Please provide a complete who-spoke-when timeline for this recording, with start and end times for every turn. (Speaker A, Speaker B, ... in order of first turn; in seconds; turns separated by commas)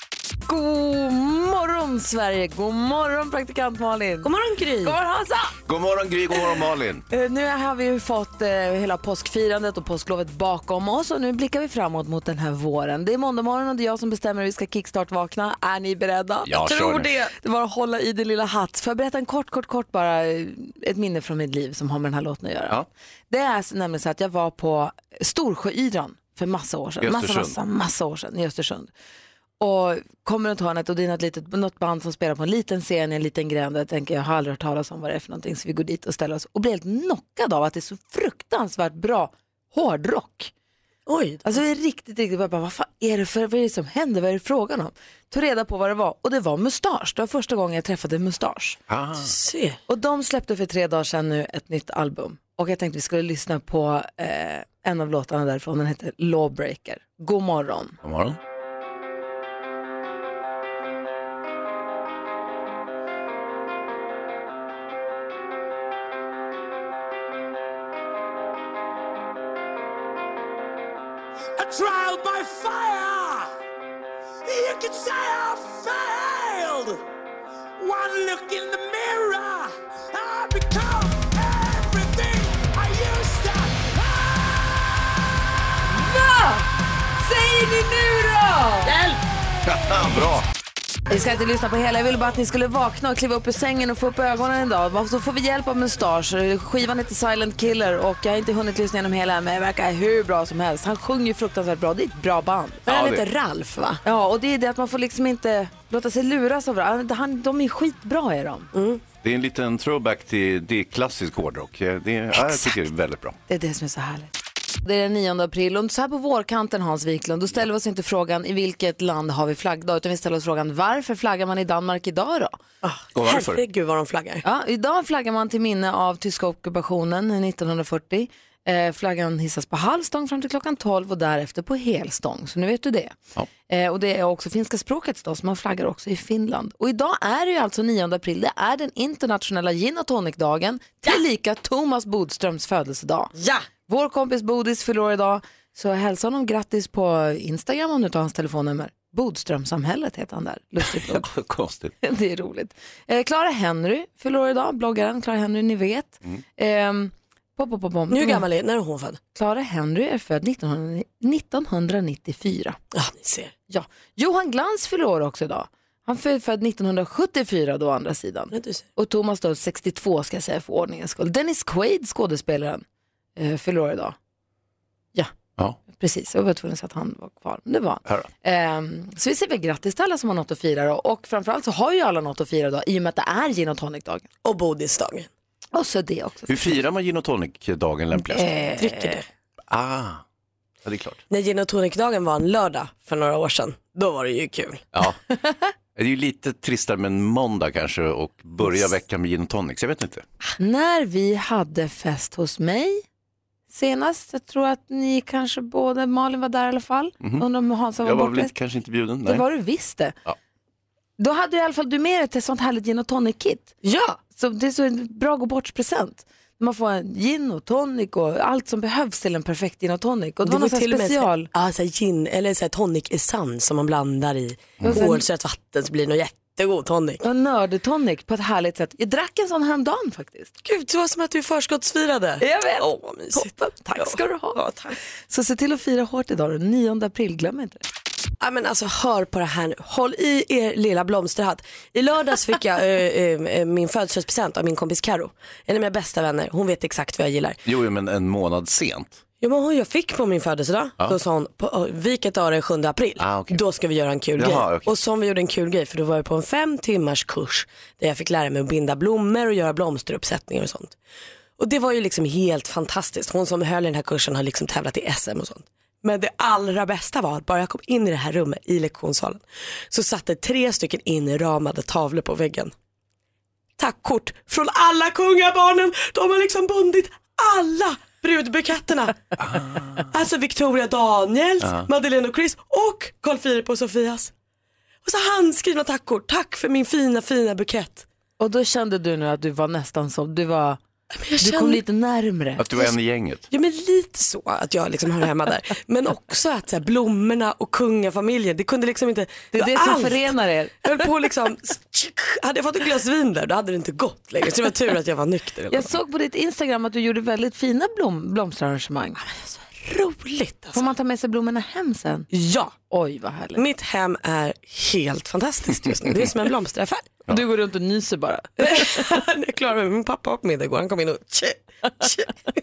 Speaker A: 0.5-4.3, Speaker B: 4.2-4.9, Speaker A: 4.8-5.5, Speaker C: 5.7-7.0, Speaker A: 7.1-16.7, Speaker C: 16.5-17.1, Speaker B: 16.5-17.3, Speaker A: 17.4-28.9, Speaker C: 27.0-27.6, Speaker A: 29.6-40.5, Speaker B: 41.1-41.4, Speaker A: 41.5-48.8, Speaker C: 48.9-49.3, Speaker B: 49.2-49.8, Speaker A: 49.9-58.0, Speaker C: 58.0-58.4, Speaker D: 71.6-73.5, Speaker D: 74.4-77.0, Speaker D: 77.8-84.7, Speaker A: 85.9-86.7, Speaker A: 87.2-88.9, Speaker C: 89.6-90.5, Speaker A: 91.1-102.9, Speaker B: 102.8-104.0, Speaker C: 102.9-103.2, Speaker A: 104.0-108.7, Speaker B: 108.7-109.0, Speaker C: 109.2-113.4, Speaker A: 113.5-122.5, Speaker B: 122.8-124.4, Speaker C: 123.1-123.6, Speaker A: 124.4-133.2, Speaker A: 133.7-143.3, Speaker B: 143.3-143.6, Speaker A: 143.9-151.3, Speaker C: 150.8-151.9, Speaker A: 152.0-158.4, Speaker B: 158.1-159.2, Speaker A: 159.3-162.8, Speaker B: 162.9-163.5, Speaker A: 163.7-172.8, Speaker B: 168.5-168.8, Speaker A: 173.3-174.2, Speaker A: 175.9-184.2, Speaker B: 184.4-185.3, Speaker A: 185.7-186.8, Speaker C: 186.5-188.5, Speaker A: 188.3-189.2, Speaker B: 188.8-189.2, Speaker C: 189.7-190.2, Speaker C: 190.8-191.2, Speaker B: 191.3-194.8, Speaker C: 194.9-195.2, Speaker C: 195.9-200.2, Speaker A: 200.6-203.0, Speaker A: 203.7-208.5, Speaker C: 208.0-209.4, Speaker A: 209.2-210.2, Speaker A: 211.2-213.7, Speaker B: 213.8-214.2, Speaker A: 214.3-221.5, Speaker B: 220.4-227.2, Speaker A: 224.9-225.2, Speaker A: 227.2-230.5, Speaker B: 230.6-234.9, Speaker A: 232.4-234.6, Speaker A: 235.3-237.8, Speaker B: 238.4-247.6, Speaker C: 247.6-249.2, Speaker B: 249.4-260.9, Speaker C: 253.2-253.6, Speaker C: 254.4-254.9, Speaker B: 261.6-272.7, Speaker B: 273.8-279.4, Speaker C: 279.4-280.1, Speaker B: 280.1-284.3, Speaker C: 281.6-281.9, Speaker B: 285.0-288.1, Speaker A: 288.4-290.8, Speaker B: 291.1-291.8, Speaker A: 291.4-292.6, Speaker C: 292.6-293.4, Speaker B: 293.5-305.9, Speaker A: 299.5-300.8, Speaker A: 305.7-309.2, Speaker B: 309.2-310.8, Speaker A: 310.7-312.3, Speaker B: 312.3-312.7, Speaker A: 312.9-313.6, Speaker B: 313.6-317.1, Speaker A: 317.3-318.9, Speaker B: 318.6-322.5